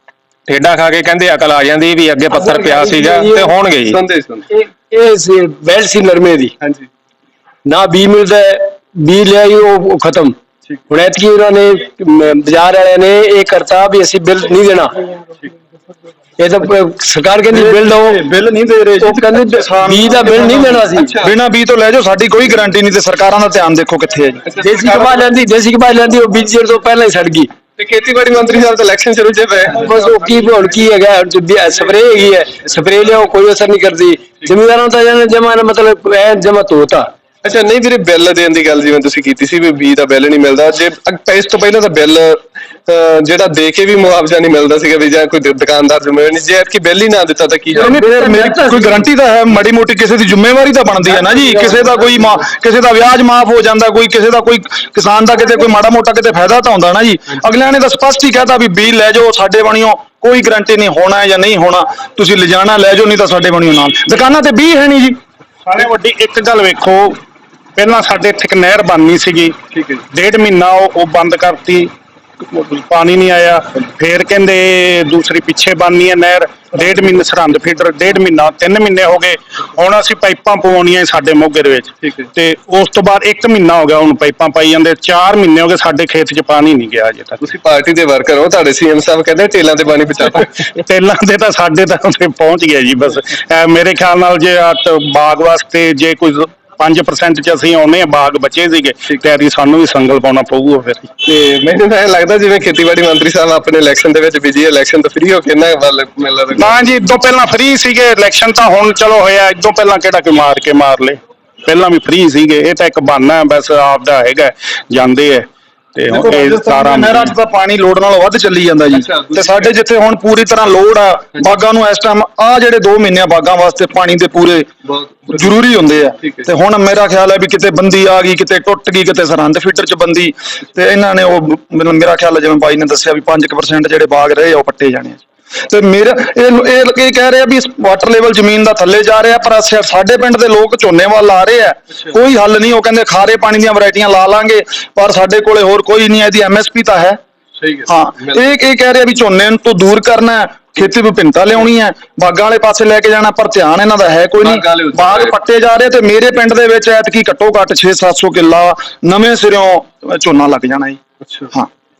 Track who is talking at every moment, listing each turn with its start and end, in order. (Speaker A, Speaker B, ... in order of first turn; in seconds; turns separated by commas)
Speaker A: 0.5-4.0, Speaker B: 2.3-3.6, Speaker C: 3.9-4.5, Speaker B: 4.5-6.5, Speaker C: 6.6-6.9, Speaker B: 7.7-10.3, Speaker B: 10.9-15.1, Speaker B: 16.4-18.2, Speaker D: 17.5-24.5, Speaker B: 19.0-21.2, Speaker C: 20.2-21.3, Speaker C: 24.5-25.3, Speaker B: 24.5-27.5, Speaker C: 27.8-30.0, Speaker B: 29.8-37.1, Speaker C: 37.4-47.9, Speaker B: 47.7-49.0, Speaker D: 47.8-65.2, Speaker B: 51.1-52.5, Speaker E: 65.7-67.1, Speaker E: 67.8-69.5, Speaker C: 69.7-70.0, Speaker E: 70.2-71.9, Speaker E: 72.6-87.3, Speaker C: 87.4-90.6, Speaker E: 90.9-101.0, Speaker C: 101.2-106.8, Speaker E: 106.6-111.1, Speaker E: 111.7-115.4, Speaker E: 116.0-117.2, Speaker D: 116.1-124.7, Speaker C: 118.9-119.8, Speaker C: 124.8-125.6, Speaker D: 125.3-147.2, Speaker C: 126.2-126.5, Speaker C: 147.6-148.5, Speaker D: 147.9-161.0, Speaker C: 154.4-155.3, Speaker C: 161.3-161.5